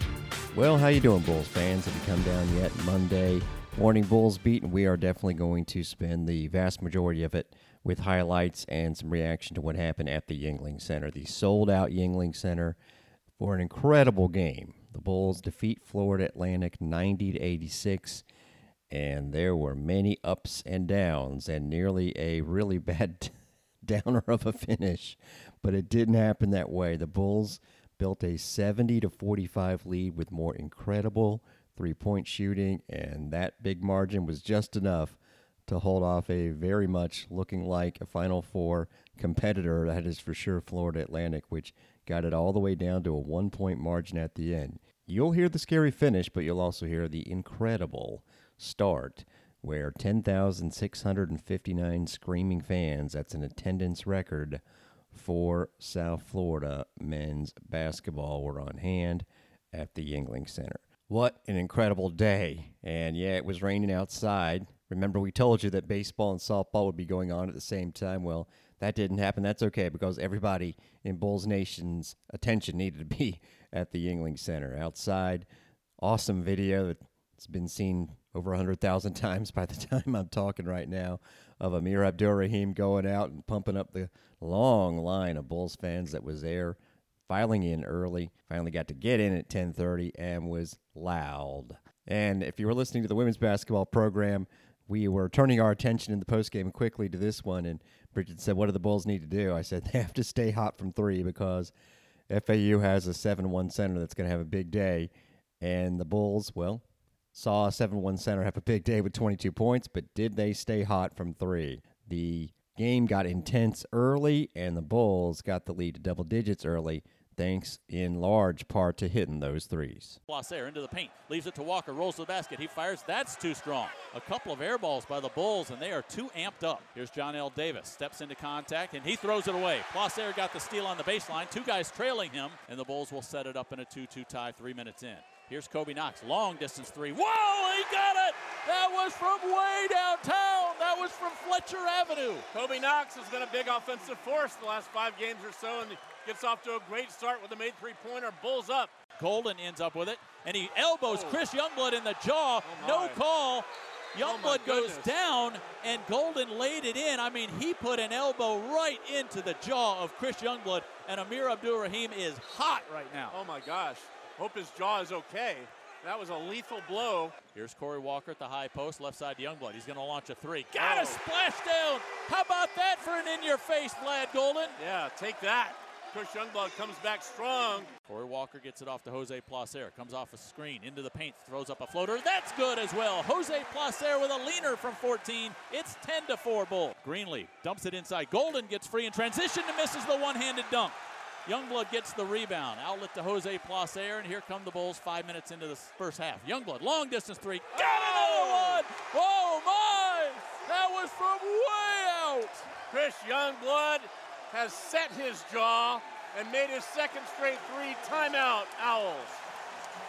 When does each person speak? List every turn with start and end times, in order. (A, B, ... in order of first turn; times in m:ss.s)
0:00.5-0:12.8 A
0:13.4-0:18.2 A
0:18.9-0:23.3 A
0:23.8-1:15.5 A
1:16.0-1:41.7 A
1:42.3-1:45.1 A
1:45.6-2:00.2 A
2:00.3-2:22.5 B
2:22.5-2:28.9 C
2:29.2-2:43.4 B
2:31.1-2:31.4 C
2:32.6-2:33.2 C
2:34.2-2:35.1 C
2:43.3-2:47.3 C
2:47.6-2:54.8 B
2:50.8-2:51.2 C
2:54.8-2:57.9 C
2:58.1-3:22.7 B
3:17.8-3:18.8 C
3:22.9-3:29.4 C